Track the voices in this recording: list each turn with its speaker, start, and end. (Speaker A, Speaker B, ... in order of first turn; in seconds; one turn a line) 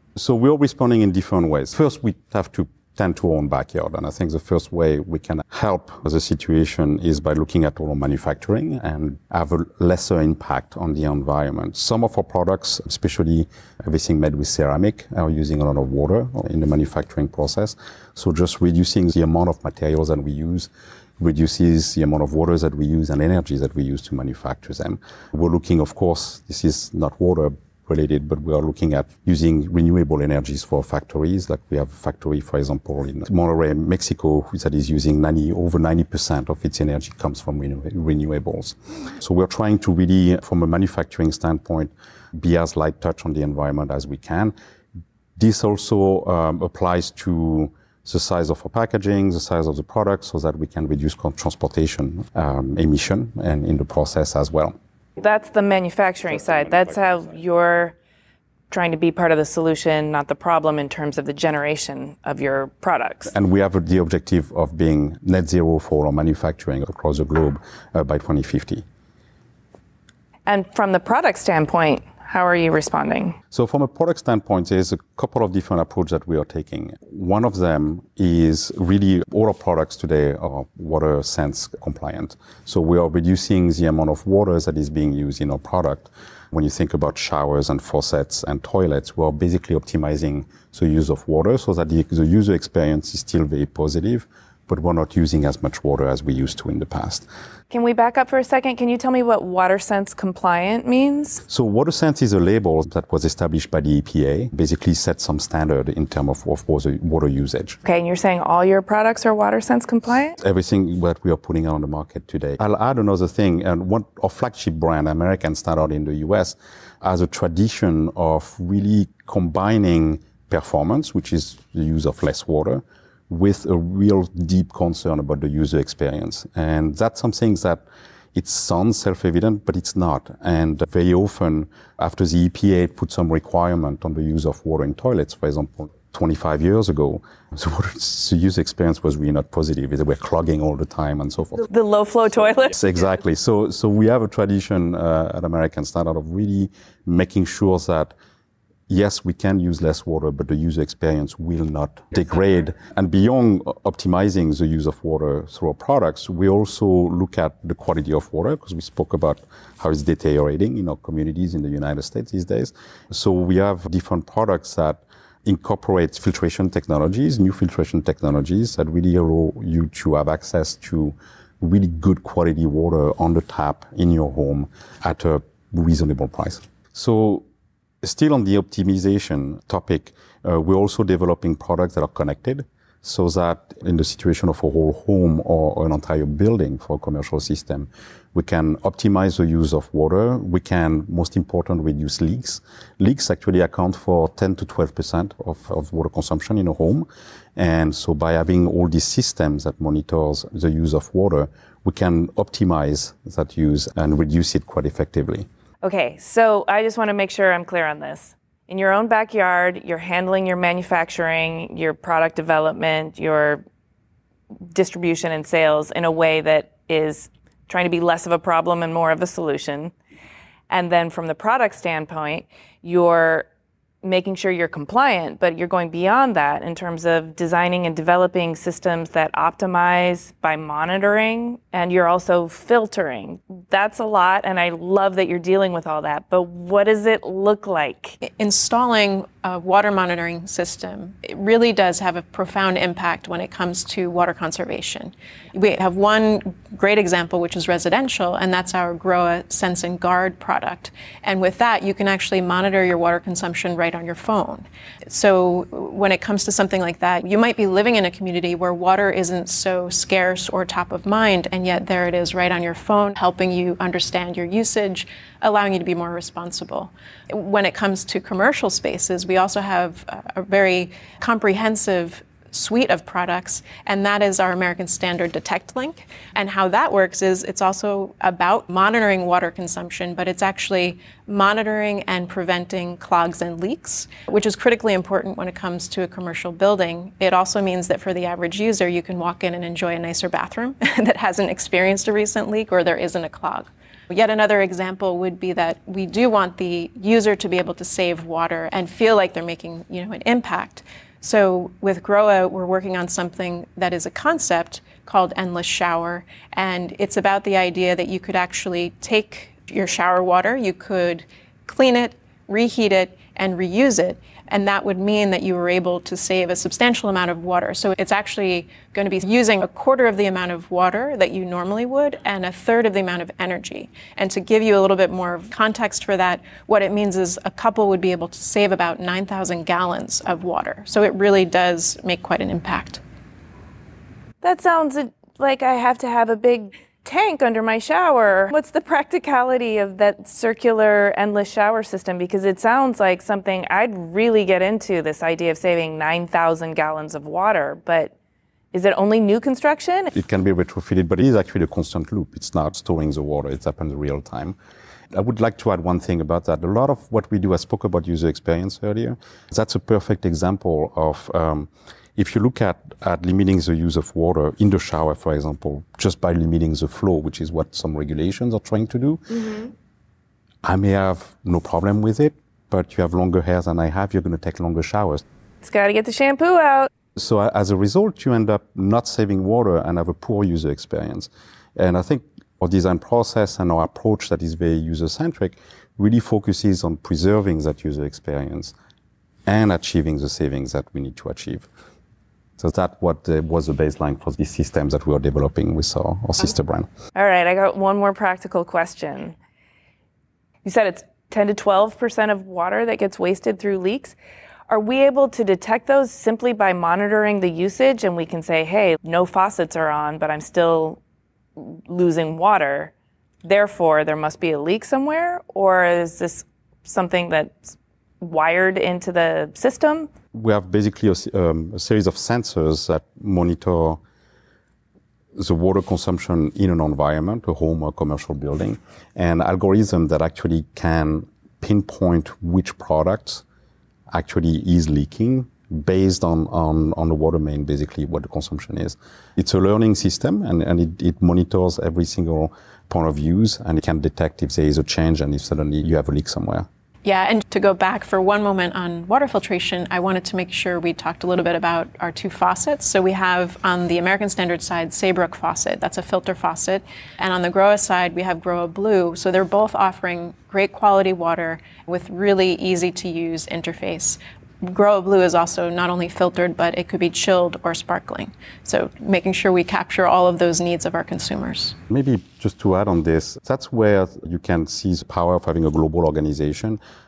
Speaker A: 0.1-44.5
Speaker A: 45.4-54.7
Speaker B: 55.2-57.9
Speaker B: 58.7-63.3
Speaker A: 63.3-68.8
Speaker B: 70.5-73.4
Speaker A: 73.5-97.3
Speaker B: 97.7-101.4
Speaker A: 101.5-107.8
Speaker B: 107.8-110.3
Speaker A: 110.4-127.8
Speaker A: 128.3-141.7
Speaker B: 141.7-142.7
Speaker A: 142.7-148.1
Speaker A: 148.9-177.4
Speaker A: 178.0-205.5
Speaker B: 205.8-213.6
Speaker B: 214.7-219.9
Speaker B: 220.7-223.5
Speaker B: 224.0-238.2
Speaker C: 238.4-333.0
Speaker B: 334.4-348.1
Speaker B: 348.7-350.1
Speaker A: 350.1-354.6
Speaker A: 355.1-369.5
Speaker A: 370.6-375.2
Speaker B: 375.6-376.9
Speaker A: 377.2-388.7
Speaker A: 389.5-391.7
Speaker A: 392.6-396.9
Speaker B: 397.1-399.4
Speaker B: 400.6-404.1
Speaker B: 404.7-411.0
Speaker B: 411.6-412.9
Speaker B: 413.4-420.1
Speaker A: 420.3-424.0
Speaker A: 425.4-433.4
Speaker A: 434.1-446.7
Speaker C: 447.0-471.8
Speaker A: 471.9-476.8